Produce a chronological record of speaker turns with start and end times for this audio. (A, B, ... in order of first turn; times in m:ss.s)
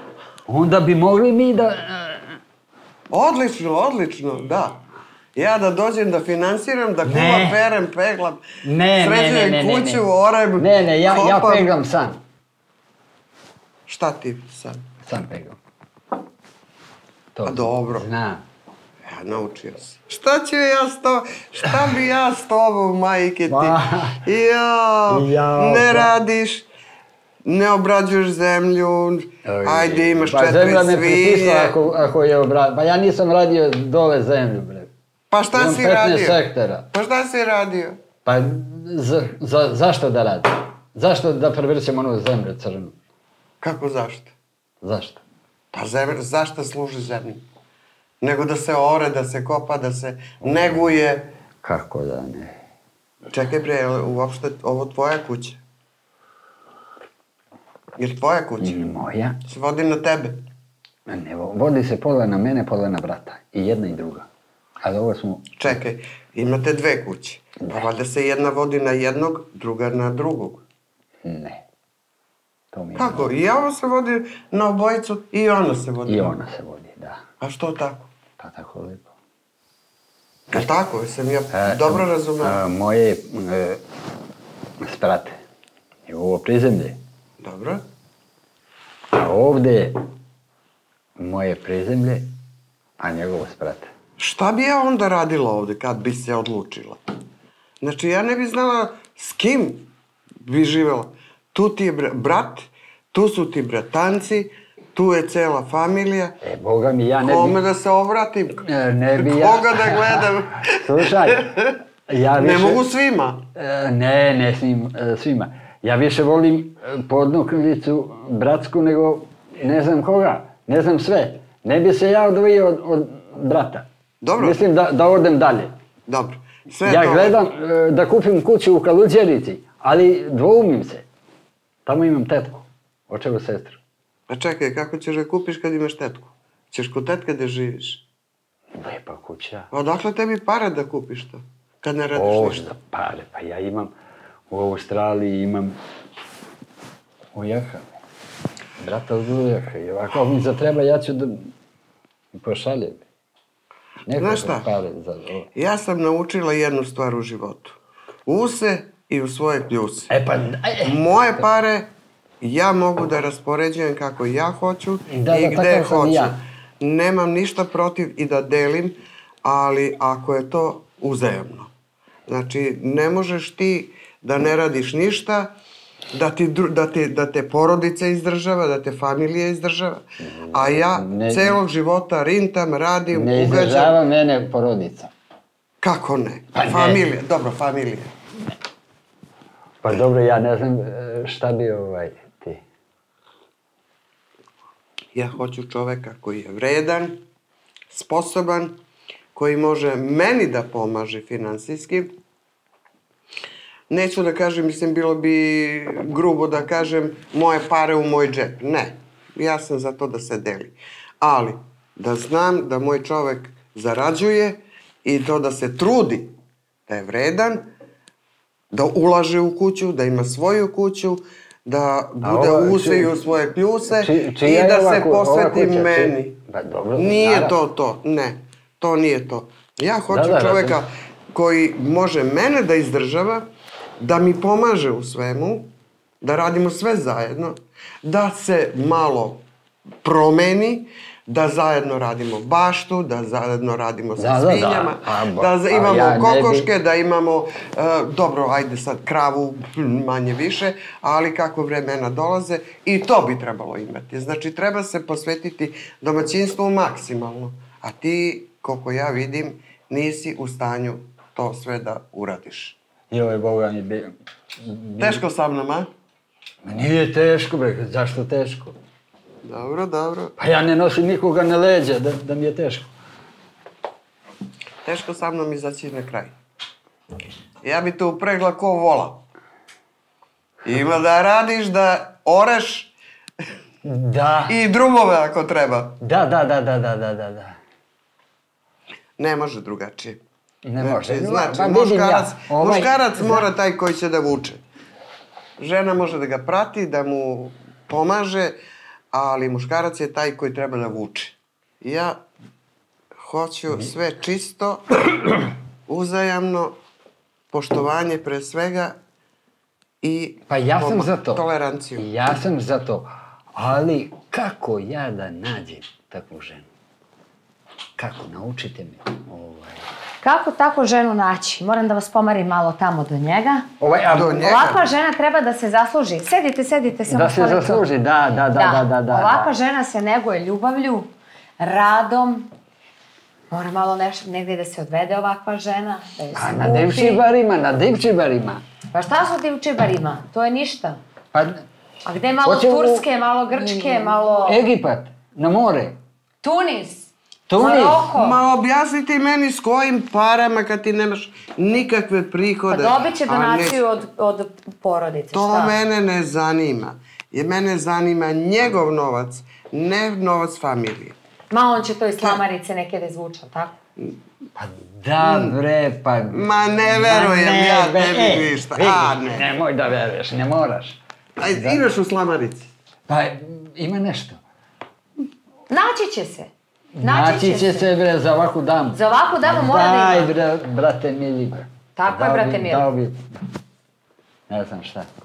0:00.5-0:02.4 A
0:03.1-0:04.8 B
0:05.4-0:11.7 B
0:07.1-0:07.6 A
0:08.6-0:10.0 A
0:10.6-0:12.2 A
0:13.9-0:14.9 B
0:15.0-0:15.6 A
0:17.4-0:18.5 A
0:17.4-0:18.1 B
0:19.1-0:26.7 B
0:23.5-0:24.2 A
0:25.1-0:26.1 A
0:27.4-0:31.8 B
0:29.4-0:34.9 A
0:35.3-0:38.0 B
0:35.5-0:36.9 A
0:38.2-0:43.0 A
0:43.6-0:44.3 B
0:44.8-0:45.2 A
0:45.7-0:47.4 B
0:48.2-0:51.3 B
0:51.6-0:52.6 A
0:53.3-0:55.6 B
0:58.0-0:58.8 B
0:58.6-0:59.4 A
0:59.4-1:00.5 B
1:01.1-1:04.3 A
1:04.8-1:05.7 A
1:05.6-1:10.6 B
1:11.2-1:11.6 A
1:12.7-1:13.3 A
1:13.0-1:16.4 B
1:16.1-1:17.2 A
1:17.4-1:18.1 B
1:18.4-1:19.1 A
1:20.5-1:22.6 B
1:21.5-1:23.8 A
1:24.8-1:25.4 A
1:26.1-1:27.0 A
1:27.4-1:27.8 B
1:29.1-1:30.0 A
1:31.2-1:32.3 A
1:33.0-1:33.9 A
1:34.2-1:37.0 B
1:37.8-1:39.9 B
1:40.4-1:46.4 B
1:46.4-1:47.6 A
1:47.2-1:51.8 B
1:48.6-1:52.8 A
1:52.4-1:53.5 B
1:53.6-2:05.7 A
2:04.2-2:04.6 B
2:06.1-2:07.4 B
2:06.8-2:11.1 A
2:11.9-2:13.8 A
2:14.3-2:18.0 B
2:18.8-2:19.7 A
2:19.7-2:22.6 B
2:22.2-2:23.9 A
2:24.5-2:25.8 A
2:27.3-2:27.9 A
2:28.8-2:31.5 A
2:32.3-2:33.1 A
2:34.1-2:35.5 A
2:34.2-2:34.7 B
2:35.6-2:40.1 B
2:40.1-2:41.1 A
2:40.8-2:51.7 B
2:45.1-2:46.3 A
2:52.3-2:55.6 B
2:56.1-3:04.0 B
3:00.2-3:01.6 A
3:03.1-3:05.1 A
3:05.8-3:08.1 B
3:06.5-3:07.0 A
3:09.8-3:12.6 A
3:15.1-3:17.2 B
3:17.9-3:18.8 B
3:19.3-3:22.2 B
3:23.9-3:36.4 B
3:36.9-3:37.7 B
3:38.7-3:46.4 B
3:42.2-3:43.1 A
3:43.9-3:47.6 A
3:47.0-3:53.5 B
3:50.1-3:50.8 A
3:54.0-3:59.5 B
4:00.0-4:22.8 B
4:04.2-4:06.7 A
4:23.1-4:25.2 A
4:25.0-4:25.9 B
4:26.6-4:28.8 A
4:29.4-4:30.4 B
4:30.4-4:32.9 A
4:34.8-4:36.3 B
4:37.6-4:39.3 B
4:40.6-4:42.9 B
4:43.8-4:44.6 A
4:44.5-4:46.0 B
4:46.0-4:47.6 A
4:49.2-4:50.2 B
4:50.6-4:53.5 A
4:50.8-4:54.6 B
4:55.6-4:58.6 B
4:59.1-5:02.2 B
5:03.2-5:06.8 B
5:07.5-5:09.0 B
5:10.0-5:12.1 B
5:10.5-5:11.5 A
5:12.0-5:16.7 A
5:18.0-5:19.8 A
5:20.2-5:23.7 C
5:23.8-5:24.7 A
5:24.1-5:24.8 B
5:24.4-5:27.9 C
5:27.1-5:29.5 A
5:28.6-5:32.5 C
5:33.5-5:37.2 C
5:36.4-5:38.6 A
5:38.9-5:41.0 C
5:41.3-5:41.6 A
5:42.0-5:44.6 C
5:42.4-5:43.0 A
5:43.6-5:46.0 A
5:46.4-5:48.4 C
5:47.5-5:48.1 A
5:48.1-5:53.8 B
5:52.7-5:55.8 C
5:55.3-6:01.2 B
6:01.5-6:03.8 C
6:04.6-6:11.8 A
6:05.2-6:05.6 B
6:06.3-6:09.5 B
6:11.4-6:12.7 B
6:13.1-6:14.4 A
6:15.7-6:17.9 C
6:17.0-6:23.2 A
6:18.9-6:20.4 C
6:22.0-6:22.9 C
6:24.5-6:25.1 A